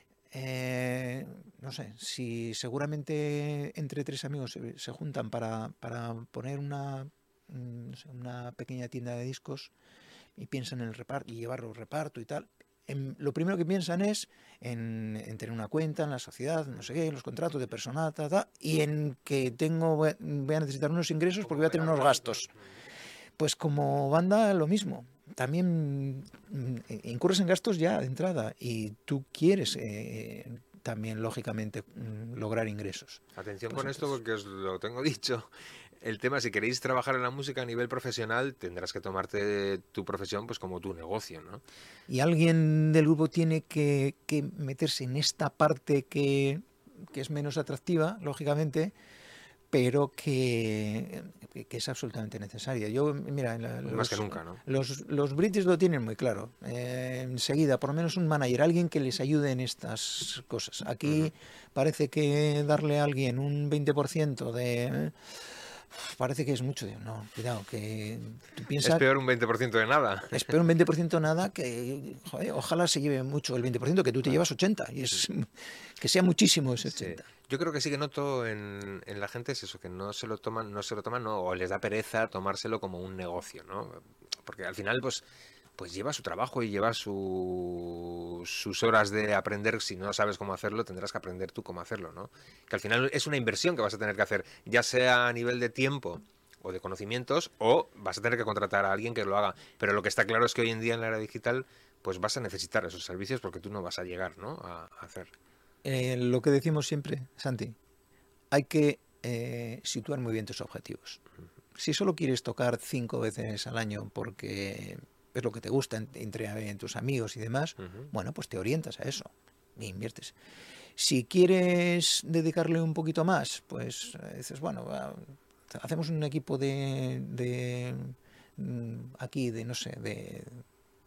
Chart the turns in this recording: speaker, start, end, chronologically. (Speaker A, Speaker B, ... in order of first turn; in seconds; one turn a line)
Speaker A: 0.3-9.7
Speaker A: 10.3-22.5
Speaker B: 21.4-22.6
Speaker A: 23.4-34.1
Speaker B: 33.4-41.6
Speaker A: 42.1-48.9
Speaker A: 49.7-69.0
Speaker B: 53.8-54.6
Speaker B: 61.0-61.3
Speaker B: 68.8-70.5
Speaker A: 70.3-77.2
Speaker B: 76.9-85.2
Speaker B: 85.8-105.3
Speaker A: 105.8-107.8
Speaker A: 108.5-111.2
Speaker A: 111.7-120.3
Speaker A: 121.0-130.6